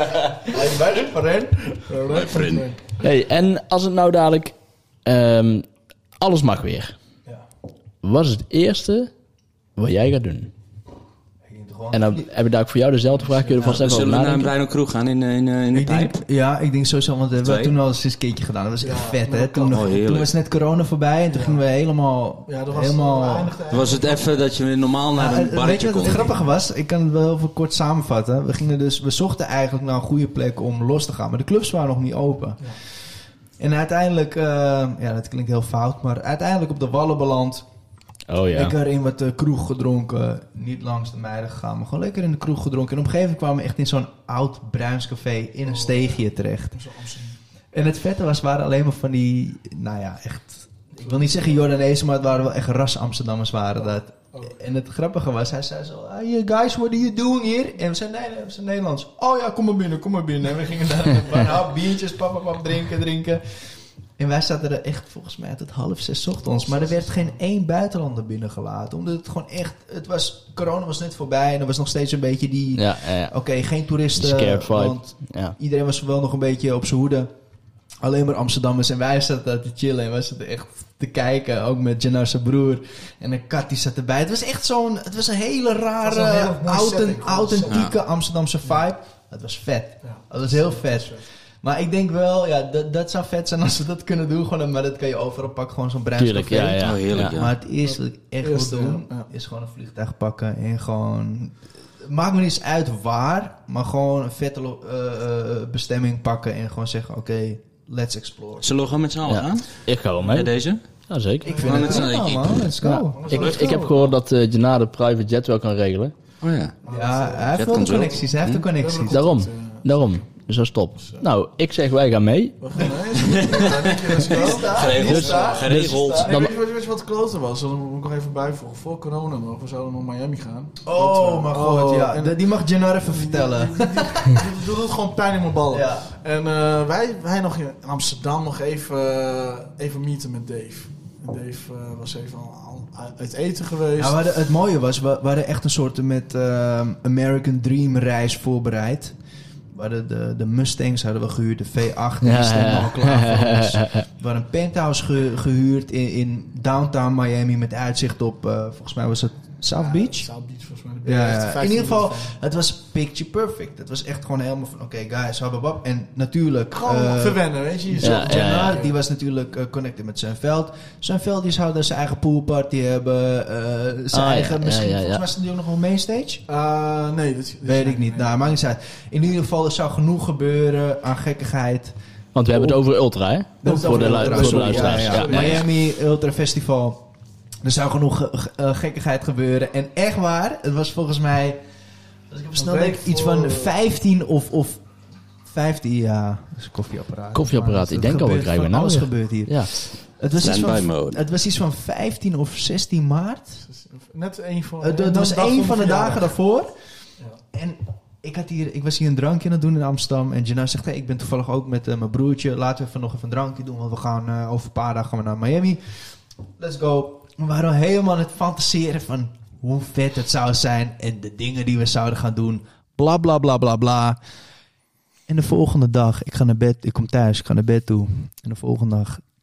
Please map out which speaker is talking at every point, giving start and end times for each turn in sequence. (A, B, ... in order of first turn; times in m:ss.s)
0:00.4-0:01.8 A
0:01.8-0:02.9 B
0:02.1-0:02.7 C
0:03.0-0:05.7 D
0:06.2-0:07.0 D
0:08.0-0:09.1 D
0:09.8-0:10.5 D
0:11.4-0:12.3 A
0:11.9-0:14.5 D
0:13.1-0:13.7 B
0:13.6-0:16.1 C
0:15.7-0:23.6 A
0:17.4-0:17.7 C
0:18.8-0:19.8 B
0:19.7-0:20.3 C
0:21.3-0:21.6 B
0:22.4-0:24.4 B
0:23.7-0:26.4 C
0:25.1-0:37.6 A
0:38.3-0:38.8 D
0:38.5-0:46.8 A
0:45.6-0:47.4 B
0:47.7-1:17.3 A
0:51.0-0:51.7 B
0:53.8-0:54.6 B
1:06.5-1:07.3 B
1:12.8-1:13.4 D
1:14.1-1:15.6 D
1:18.0-1:48.7 A
1:26.0-1:27.9 B
1:27.7-1:28.0 C
1:30.0-1:31.3 B
1:36.2-1:37.4 D
1:36.8-1:37.5 C
1:37.8-1:39.3 B
1:48.6-1:50.8 C
1:49.2-1:52.0 D
1:51.4-1:52.2 B
1:51.4-1:53.5 A
1:51.6-1:52.7 C
1:52.8-1:56.1 D
1:53.1-1:54.2 B
1:53.4-1:53.7 C
1:56.4-1:56.7 C
1:56.8-2:00.0 B
1:56.8-1:59.2 A
1:57.5-1:58.6 C
1:59.1-2:02.9 D
2:01.0-2:01.2 B
2:02.6-2:24.2 B
2:03.2-2:06.3 C
2:04.2-2:06.4 A
2:05.7-2:06.5 D
2:10.8-2:14.4 A
2:15.7-2:16.1 A
2:24.0-2:29.2 A
2:29.7-2:40.3 A
2:32.2-2:34.1 D
2:39.8-2:42.4 B
2:41.0-2:56.4 A
2:46.7-2:48.9 B
2:48.0-2:48.8 D
2:54.1-2:55.2 D
2:56.5-2:58.5 B
2:57.6-3:01.9 A
3:02.4-3:05.6 D
3:02.5-3:02.9 A
3:03.6-3:07.0 A
3:03.6-3:05.6 B
3:07.6-3:11.6 A
3:12.3-3:23.6 A
3:12.6-3:13.7 B
3:17.3-3:19.7 D
3:20.3-3:21.2 C
3:23.6-3:26.3 B
3:24.8-3:44.2 A
3:45.3-3:49.2 A